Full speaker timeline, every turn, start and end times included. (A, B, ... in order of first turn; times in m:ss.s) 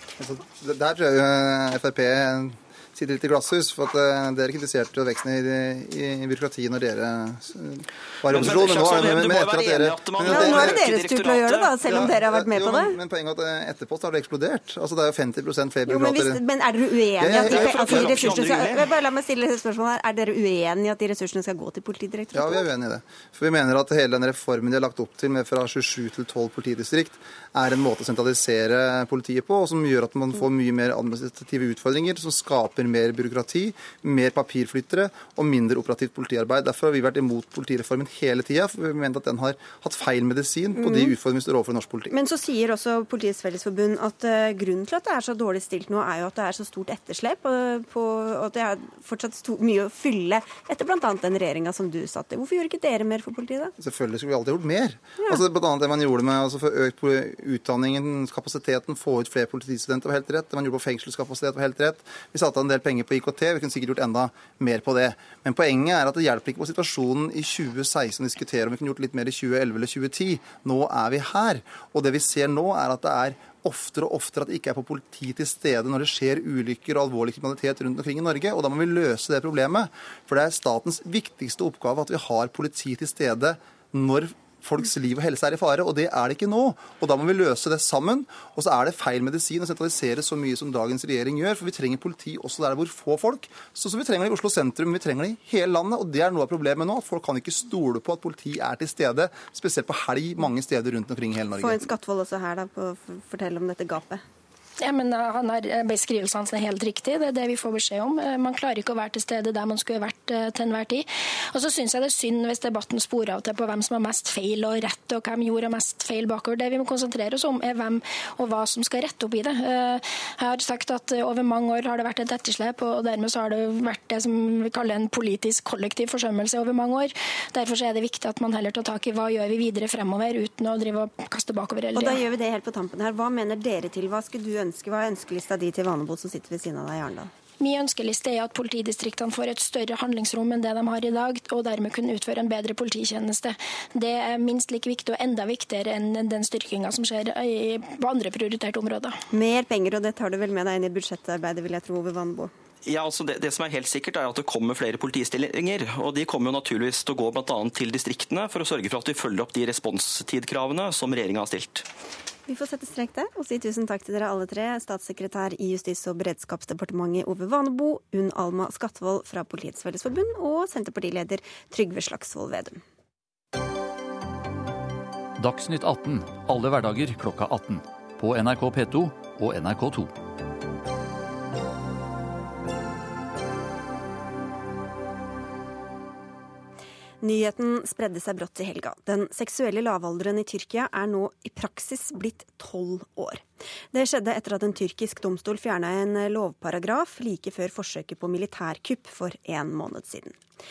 0:00.2-0:10.8 A
0:08.3-0:11.8 B
0:10.2-0:13.0 C
0:11.8-0:16.4 A
0:15.9-0:22.6 C
0:17.2-0:18.4 A
0:17.3-0:18.9 B
0:22.3-0:42.1 A
0:40.8-0:41.1 C
0:42.1-0:53.7 C
0:53.8-1:41.9 A
1:41.6-1:44.2 C
1:44.8-2:12.2 D
2:11.9-2:17.3 C
2:17.6-2:29.2 D
2:29.3-2:32.5 C
2:32.8-2:41.8 B
2:42.5-2:52.8 C
2:55.4-3:00.1 E
3:07.2-3:20.4 C